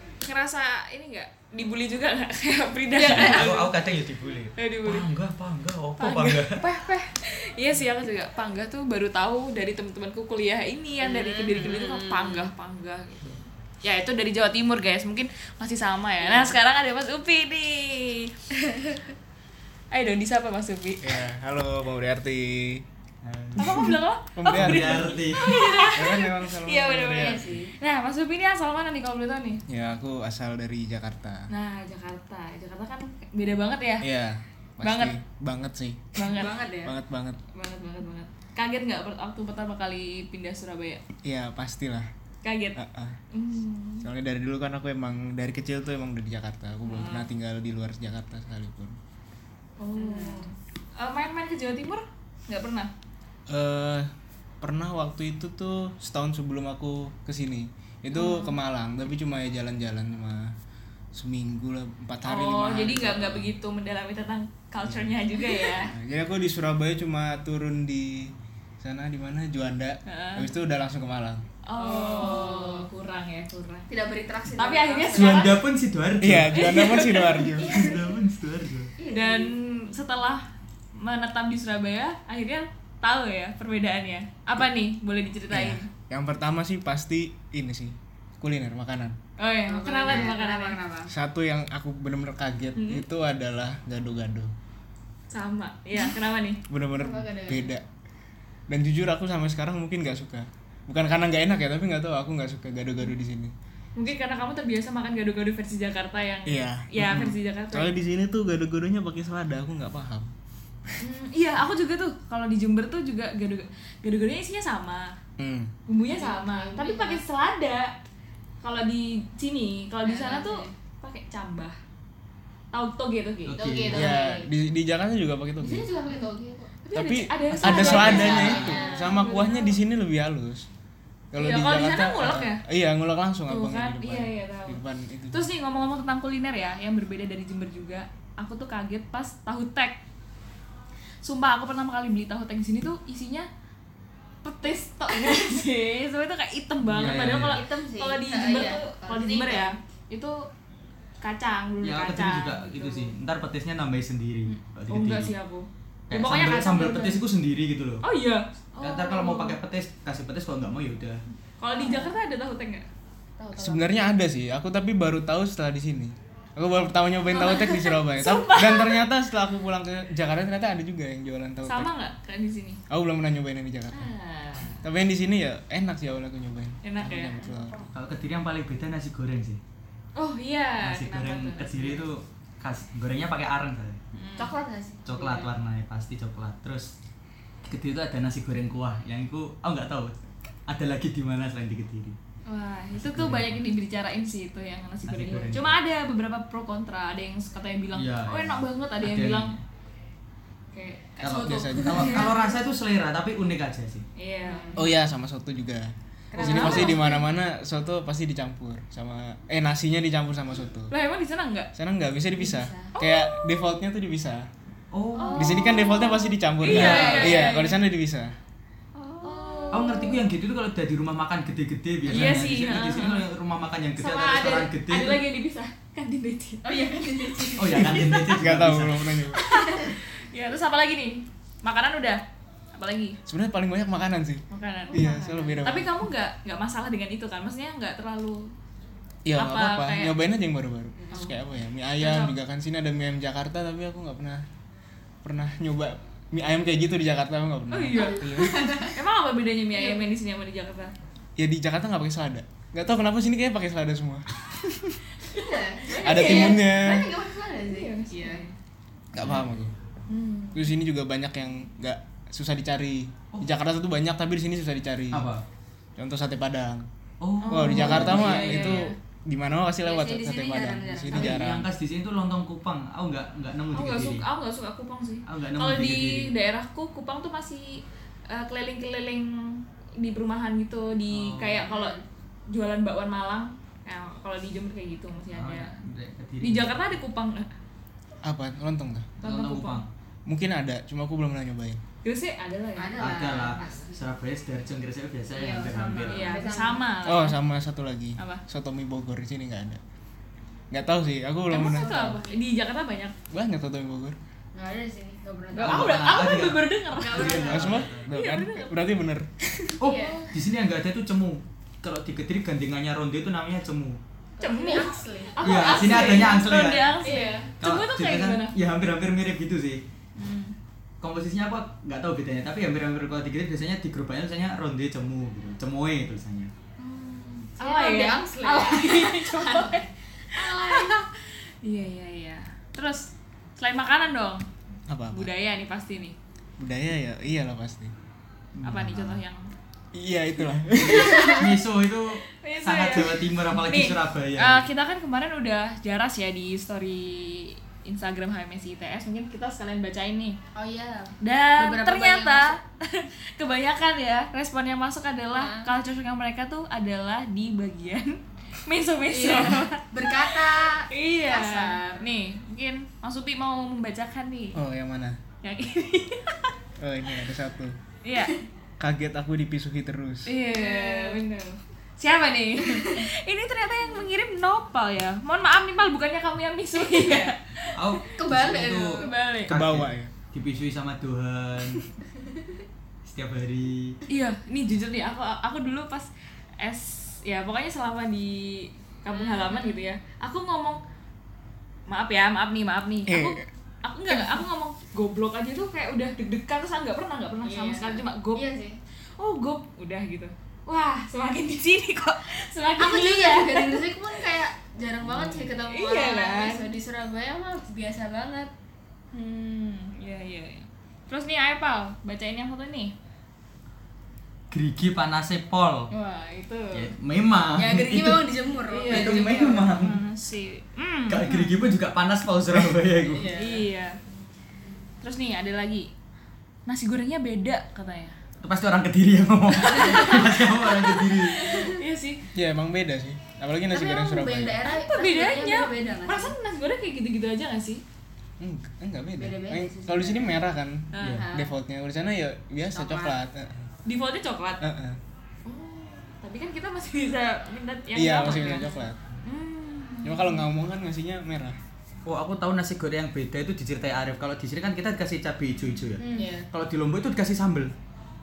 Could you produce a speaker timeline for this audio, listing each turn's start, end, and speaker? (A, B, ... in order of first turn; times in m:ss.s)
0:00.2-0:03.7 A
0:02.9-0:03.6 B
0:03.0-0:06.6 C
0:04.6-0:05.1 A
0:06.0-0:18.4 A
0:11.0-0:12.5 B
0:16.2-0:16.5 B
0:18.7-0:19.0 B
0:19.9-0:21.2 A
0:21.0-0:22.8 D
0:23.2-0:23.9 C
0:23.6-0:29.6 A
0:24.4-0:25.2 D
0:24.5-0:25.6 C
0:25.4-0:26.0 B
0:25.9-0:27.5 D
0:27.1-0:27.7 B
0:29.7-0:31.5 D
0:31.5-0:34.1 A
0:34.0-0:37.4 D
0:34.8-0:35.1 A
0:36.2-0:36.6 A
0:36.3-0:37.0 B
0:37.5-0:41.0 A
0:41.2-0:42.1 D
0:42.4-0:42.8 A
0:42.8-0:43.2 D
0:43.3-0:44.1 A
0:44.0-0:49.0 D
0:46.8-0:47.3 A
0:49.8-0:52.9 A
0:50.0-0:50.5 B
0:53.5-0:54.1 D
0:54.6-1:00.5 D
0:58.1-0:58.6 A
1:01.1-1:03.5 D
1:02.2-1:05.9 A
1:04.9-1:05.1 D
1:05.9-1:11.4 D
1:10.1-1:10.5 A
1:11.6-1:13.9 A
1:11.8-1:12.9 B
1:13.9-1:15.5 B
1:14.6-1:15.6 A
1:15.1-1:16.6 C
1:16.2-1:17.9 D
1:16.5-1:17.8 A
1:17.6-1:18.9 C
1:17.7-1:18.0 B
1:19.0-1:19.5 B
1:19.1-1:20.5 A
1:21.0-1:25.9 A
1:25.5-1:29.2 D
1:29.4-1:30.8 A
1:29.7-1:31.1 B
1:31.1-1:34.5 D
1:32.8-1:33.0 A
1:35.3-1:36.6 A
1:36.7-1:37.8 D
1:37.0-1:37.7 B
1:38.7-1:43.5 D
1:44.0-1:48.0 A
1:46.5-1:50.3 D
1:51.0-1:55.1 A
1:55.4-1:55.7 D
1:55.9-1:57.9 A
1:56.1-1:57.2 B
1:58.6-2:01.8 A
2:00.0-2:00.7 B
2:02.7-2:03.6 A
2:03.5-2:04.2 C
2:03.6-2:04.5 B
2:03.9-2:05.9 D
2:05.6-2:06.7 B
2:06.8-2:09.8 A
2:06.9-2:10.7 D
2:07.6-2:09.1 B
2:07.7-2:08.7 C
2:11.3-2:15.5 D
2:11.4-2:12.6 A
2:13.5-2:20.0 A
2:21.2-2:23.5 A
2:24.4-2:30.5 A
2:26.8-2:27.6 C
2:27.1-2:29.7 B
2:31.2-2:33.1 A
2:31.8-2:35.3 C
2:34.5-2:37.2 A
2:36.1-2:38.0 C
2:38.0-2:39.6 A
2:38.8-2:41.2 C
2:41.6-2:42.9 A
2:41.7-2:42.2 B
2:43.4-2:44.1 B
2:43.6-2:51.9 D
2:47.3-2:49.0 A
2:51.7-2:52.8 A
2:52.9-2:54.1 D
2:53.9-2:54.8 A
2:54.8-2:57.8 D
2:56.8-2:57.4 A
2:57.4-2:57.9 B
2:57.9-2:59.6 C
3:00.2-3:02.0 A
3:00.8-3:04.0 C
3:04.1-3:04.6 A
3:04.4-3:05.5 B
3:05.0-3:06.9 C
3:07.6-3:10.2 C
3:10.7-3:12.2 C
3:12.5-3:19.6 A
3:12.9-3:13.6 C
3:15.0-3:15.8 C
3:18.0-3:19.6 C
3:20.7-3:22.4 A
3:21.2-3:24.1 C
3:21.4-3:22.6 B
3:21.4-3:22.2 D
3:24.2-3:24.8 A
3:24.4-3:24.9 B
3:24.8-3:30.9 D
3:26.3-3:27.2 B
3:26.4-3:27.2 A
3:30.9-3:31.7 A
3:31.8-3:34.5 D
3:32.4-3:32.9 B
3:32.9-3:33.7 A
3:34.9-3:35.6 C
3:35.2-3:35.9 B
3:35.2-3:37.8 A
3:35.4-3:38.4 D
3:36.7-3:37.5 B
3:36.7-3:37.3 C
3:39.0-3:40.2 B
3:39.2-3:40.2 A
3:39.7-3:45.2 C
3:42.1-3:43.3 A
3:44.0-3:47.5 A
3:46.6-3:48.2 B
3:47.6-3:49.2 C
3:47.8-3:49.5 D
3:49.3-3:52.2 A
3:49.4-3:49.9 B
3:52.8-3:53.2 A
3:53.3-3:56.0 D
3:54.5-3:58.5 A
3:54.9-3:55.6 B
3:59.3-4:04.4 D
3:59.4-4:00.2 A
4:01.0-4:01.3 B
4:02.0-4:02.3 A
4:05.2-4:08.8 D
4:07.7-4:10.9 A
4:07.9-4:09.0 B
4:09.8-4:10.0 B
4:11.4-4:15.0 D
4:15.3-4:18.4 B
4:15.9-4:17.1 D
4:16.0-4:16.8 A
4:17.7-4:18.6 A
4:19.1-4:19.7 D
4:19.2-4:19.5 C
4:20.1-4:20.7 A
4:20.5-4:25.3 D
4:25.1-4:25.4 C
4:26.0-4:26.9 D
4:27.2-4:28.7 C
4:27.4-4:29.0 A
4:27.5-4:31.7 D
4:27.8-4:28.9 B
4:29.8-4:31.4 B
4:31.1-4:34.2 C
4:33.7-4:45.7 A
4:35.3-4:36.3 C
4:41.1-4:41.7 C
4:41.7-4:42.0 B
4:45.3-4:47.0 C
4:46.4-4:47.5 A
4:48.2-4:49.1 D
4:49.2-4:49.8 A
4:49.2-4:49.9 C
4:50.3-4:51.8 D
4:52.0-4:53.8 A
4:52.8-4:54.0 B
4:53.0-4:56.4 C
4:55.3-4:56.9 B
4:56.1-4:57.4 A
4:57.0-4:59.8 D
4:58.2-4:58.4 A
5:00.7-5:02.2 D
5:01.5-5:03.1 A
5:01.6-5:02.4 B
5:03.3-5:04.2 D
5:04.5-5:06.0 B
5:05.5-5:08.8 A
5:05.6-5:08.1 C
5:07.0-5:07.8 B
5:07.5-5:09.8 D
5:09.8-5:14.0 C
5:09.8-5:10.3 B
5:09.9-5:10.3 A
5:14.4-5:16.4 B
5:14.4-5:18.6 A
5:15.4-5:17.0 C
5:17.0-5:17.5 B
5:17.6-5:19.8 C
5:20.2-5:20.6 A
5:21.0-5:26.5 C
5:26.8-5:34.5 A
5:27.6-5:31.0 B
5:34.9-5:35.3 D
5:35.1-5:36.2 A
5:36.6-5:37.9 D
5:38.6-5:39.2 C
5:38.6-5:39.5 A
5:39.9-5:41.6 D
5:40.8-5:44.6 C
5:42.3-5:50.4 A
5:50.6-5:52.6 B
5:51.2-6:04.6 A
5:55.3-5:55.7 B
5:59.1-6:02.0 B
6:04.6-6:05.2 D
6:05.4-6:06.5 A
6:06.8-6:07.8 D
6:08.0-6:08.4 A
6:08.8-6:10.3 D
6:10.3-6:18.0 A
6:10.5-6:11.2 B
6:12.6-6:13.1 B
6:16.8-6:17.3 B
6:17.7-6:21.8 C
6:18.2-6:19.1 B
6:19.0-6:19.5 A
6:19.5-6:20.1 D
6:22.2-6:22.6 B
6:23.0-6:24.0 C
6:24.1-6:26.1 A
6:26.6-6:30.8 A
6:29.1-6:29.8 B
6:31.9-6:38.4 A
6:33.1-6:33.4 D
6:37.4-6:38.8 B
6:39.2-6:44.3 A
6:42.8-6:48.5 B
6:45.5-6:46.7 A
6:49.1-6:52.9 A
6:54.5-6:55.9 C
6:56.0-6:56.6 A
6:56.3-6:56.6 B
6:56.7-6:58.4 C
6:57.6-6:59.8 B
6:58.7-7:01.6 A
6:58.9-7:00.0 C
7:01.1-7:03.3 C
7:03.0-7:03.7 B
7:03.3-7:04.0 A
7:05.0-7:05.9 A
7:06.7-7:08.2 A
7:08.4-7:11.7 C
7:09.6-7:12.2 A
7:11.4-7:11.8 B
7:12.3-7:14.6 D
7:13.7-7:16.3 B
7:14.6-7:17.8 A
7:18.4-7:23.6 D
7:19.2-7:20.4 B
7:20.9-7:21.3 A
7:21.0-7:21.3 C
7:21.1-7:21.5 B
7:22.7-7:23.2 B
7:23.9-7:24.6 A
7:24.6-7:25.0 D
7:25.5-7:30.4 A
7:27.9-7:29.0 D
7:30.0-7:31.6 D
7:32.1-7:37.7 C
7:36.0-7:36.3 A
7:36.1-7:36.5 B